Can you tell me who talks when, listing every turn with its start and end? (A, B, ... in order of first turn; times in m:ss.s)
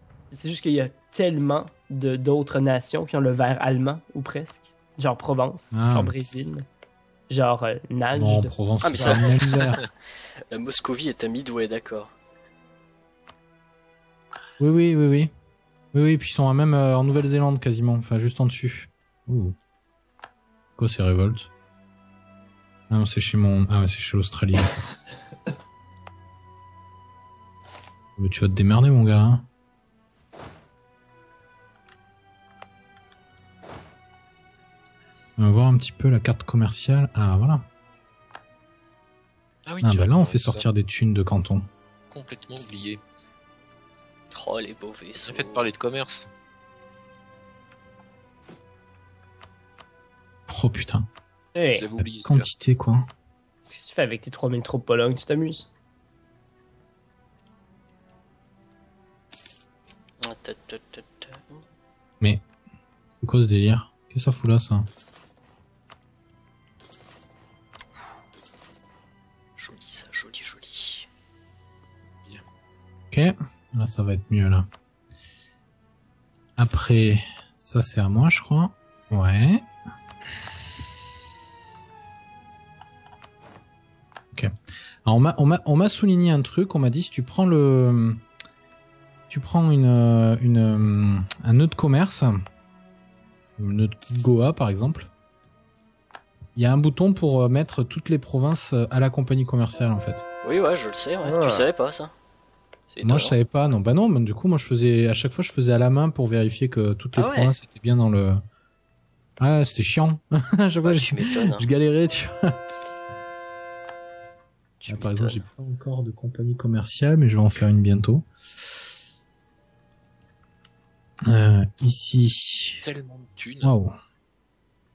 0:00.3-0:06.6 A
0:05.7-0:06.1 B
0:07.3-0:09.2 A
0:08.1-0:09.8 B
0:08.8-0:09.8 C
0:10.5-0:12.1 C
0:14.6-0:15.3 B
0:15.9-0:19.6 B
0:20.8-0:21.5 B
0:22.9-0:24.8 B
0:28.2-0:29.4 B
0:35.4-0:37.6 B
0:39.6-0:40.7 D
0:39.8-0:41.7 B
0:42.1-0:43.0 D
0:44.3-0:45.7 C
0:45.2-0:46.3 D
0:50.5-0:51.1 B
0:51.5-0:51.8 A
0:51.7-0:52.5 D
0:52.0-0:53.1 B
0:53.6-0:55.7 A
1:00.2-1:01.6 C
1:03.2-1:04.9 B
1:09.6-1:11.1 C
1:13.1-1:14.7 B
1:16.6-1:19.7 B
1:25.0-1:28.2 B
1:29.3-1:32.4 B
1:33.6-1:35.1 B
1:36.5-1:40.2 B
1:40.4-1:42.1 C
1:41.2-1:41.7 A
1:42.9-1:43.4 C
1:43.0-1:48.4 B
1:47.2-1:47.5 C
1:49.4-1:52.3 B
1:50.8-1:51.6 C
1:54.8-1:55.4 C
1:54.9-1:58.3 B
2:01.3-2:02.8 B
2:02.8-2:03.7 D
2:03.6-2:04.0 B